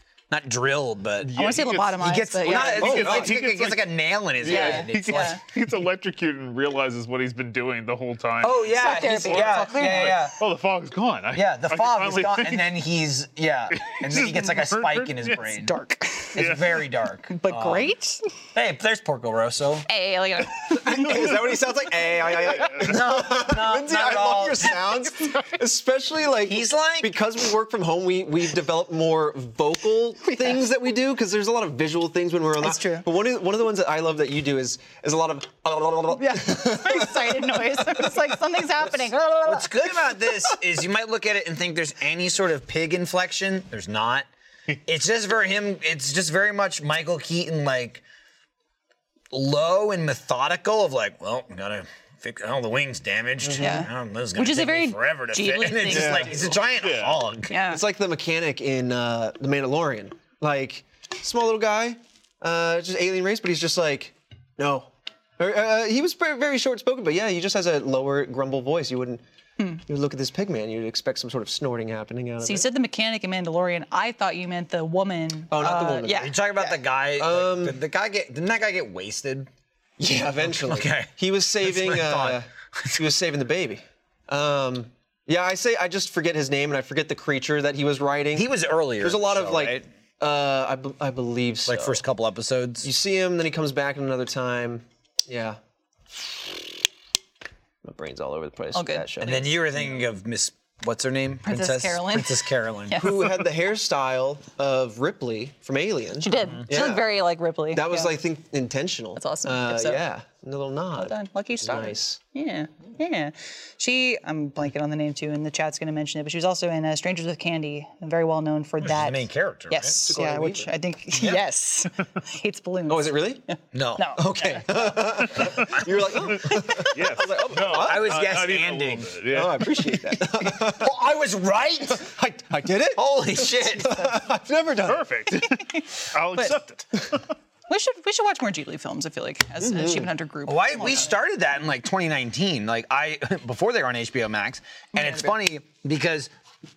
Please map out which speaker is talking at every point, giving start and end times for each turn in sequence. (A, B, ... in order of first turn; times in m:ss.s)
0:00.3-0:05.4 A
0:01.2-0:03.8 B
0:01.3-0:03.2 C
0:02.8-0:03.3 D
0:04.4-0:12.7 B
0:04.4-0:05.4 C
0:08.4-0:10.4 A
0:08.8-0:10.2 C
0:11.3-0:15.7 A
0:13.7-0:15.6 B
0:15.6-0:16.4 C
0:16.3-0:17.9 A
0:16.4-0:16.7 B
0:17.3-0:18.3 C
0:18.5-0:19.9 A
0:19.9-0:21.4 C
0:20.7-0:38.2 D
0:22.2-0:23.0 B
0:22.7-0:24.8 A
0:26.5-0:27.1 A
0:32.6-0:33.1 C
0:36.2-0:40.0 C
0:39.4-0:44.3 A
0:44.8-0:48.0 A
0:49.3-0:57.5 A
0:53.4-0:53.8 D
0:53.6-0:56.4 C
0:55.9-0:56.6 D
0:56.8-0:57.2 B
0:57.5-0:57.8 C
0:57.7-1:09.2 D
1:09.9-1:12.7 D
1:12.4-1:16.4 C
1:15.5-1:17.8 D
1:16.1-1:19.5 A
1:20.0-1:32.0 D
1:20.5-1:21.1 A
1:21.6-1:23.0 A
1:28.3-1:29.9 A
1:31.7-1:32.9 A
1:32.8-1:35.6 D
1:36.2-1:36.7 D
1:37.8-1:39.6 D
1:38.7-1:39.4 C
1:39.2-1:43.1 A
1:41.4-1:43.1 C
1:42.9-1:47.2 D
1:46.2-1:48.1 C
1:47.7-1:52.2 D
1:49.2-1:50.0 C
1:51.0-2:04.8 C
1:58.8-2:00.0 A
2:00.0-2:01.4 D
2:02.9-2:03.4 D
2:03.7-2:04.9 A
2:04.2-2:08.4 D
2:05.3-2:10.0 B
2:07.5-2:09.1 A
2:09.3-2:11.0 D
2:10.6-2:12.1 A
2:11.9-2:15.1 D
2:12.9-2:14.0 A
2:14.8-2:17.3 B
2:15.4-2:16.6 C
2:17.7-2:21.1 C
2:19.6-2:20.1 D
2:20.5-2:26.3 A
2:24.9-2:25.3 C